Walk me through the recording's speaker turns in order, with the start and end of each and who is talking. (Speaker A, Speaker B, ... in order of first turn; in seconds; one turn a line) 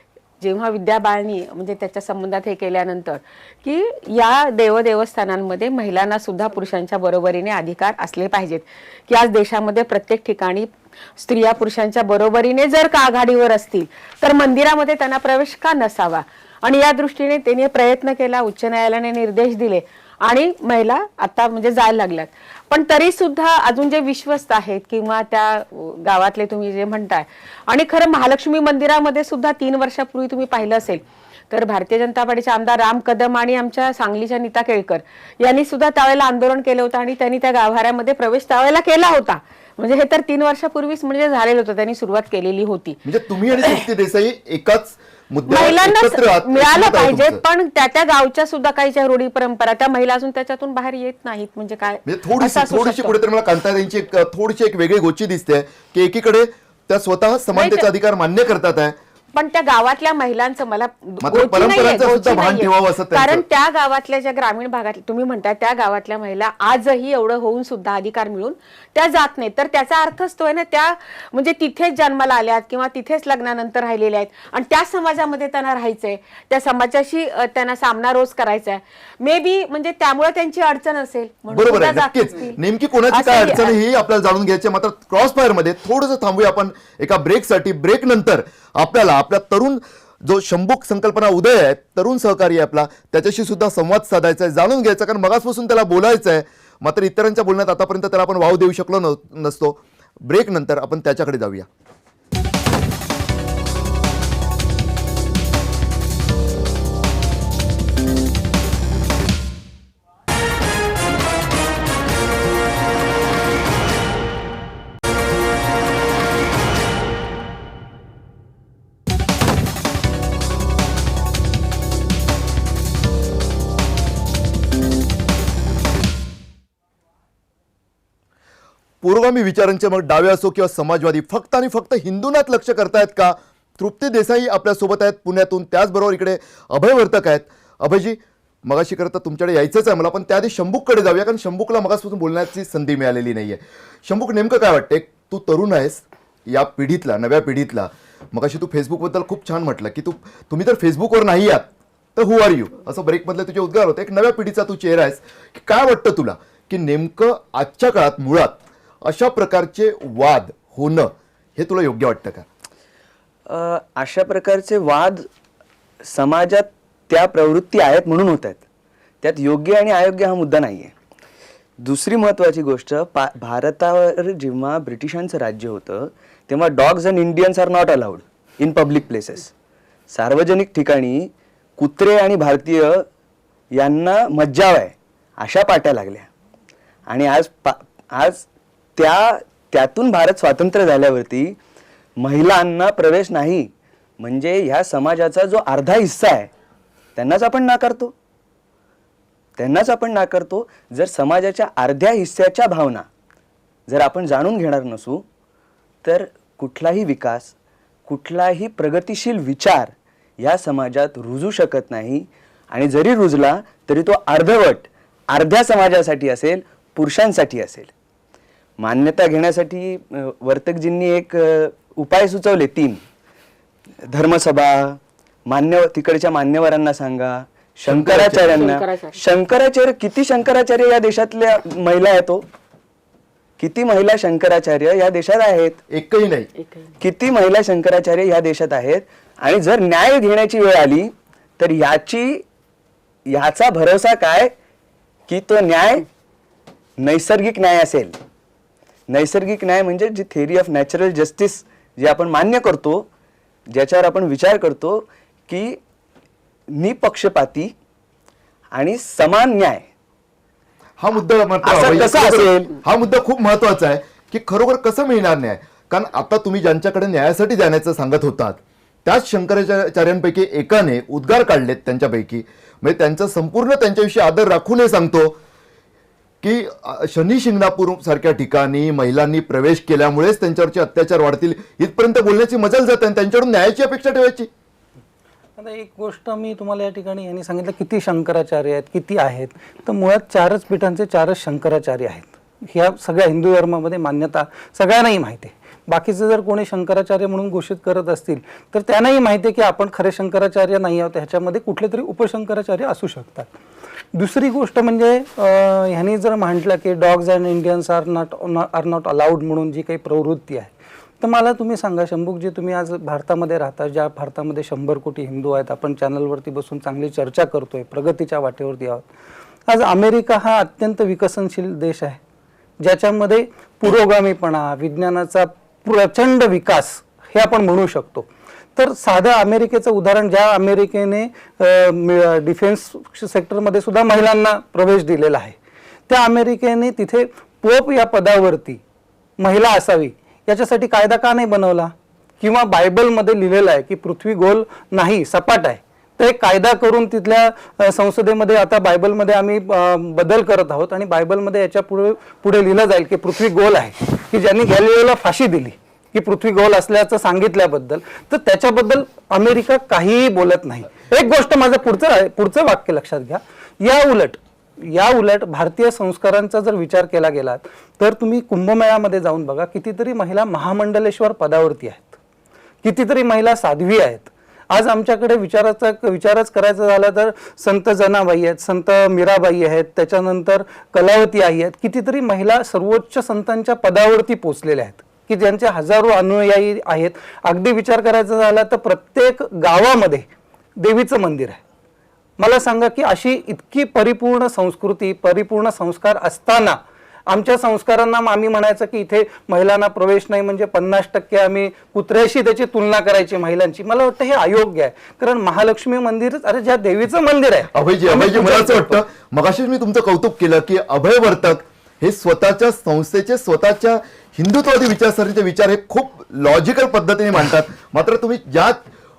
Speaker A: 0.4-43.0
Speaker B: 43.0-47.4
Speaker A: 45.5-53.2
Speaker B: 52.0-59.0
Speaker A: 57.5-57.9
Speaker A: 59.3-83.8
Speaker B: 61.2-63.4
Speaker B: 81.5-101.7
Speaker B: 129.0-162.4
Speaker C: 163.5-165.3
Speaker C: 166.1-168.6
Speaker C: 169.2-170.9
Speaker C: 171.8-179.5
Speaker C: 180.1-183.1
Speaker C: 183.7-186.3
Speaker C: 187.1-188.5
Speaker C: 189.0-191.6
Speaker C: 192.2-196.5
Speaker C: 197.2-198.2
Speaker C: 199.6-203.1
Speaker C: 203.9-205.2
Speaker C: 206.0-207.5
Speaker C: 208.1-217.9
Speaker C: 218.8-223.0
Speaker C: 224.1-232.5
Speaker B: 227.9-228.7
Speaker A: 228.6-229.2
Speaker C: 233.6-235.8
Speaker B: 235.9-236.5
Speaker A: 236.6-236.9
Speaker C: 237.0-242.4
Speaker C: 243.3-244.5
Speaker C: 245.3-246.1
Speaker C: 247.0-248.2
Speaker C: 249.1-253.1
Speaker C: 253.7-255.8
Speaker C: 256.8-257.7
Speaker C: 258.7-259.8
Speaker B: 261.0-275.4
Speaker C: 261.6-262.7
Speaker B: 276.4-284.5
Speaker D: 285.6-303.5
Speaker D: 304.1-319.1
Speaker D: 319.7-322.2
Speaker D: 322.8-335.6
Speaker D: 336.1-338.8
Speaker D: 339.4-372.2
Speaker D: 372.8-390.2
Speaker D: 390.8-391.6
Speaker D: 392.4-409.0
Speaker B: 407.8-418.8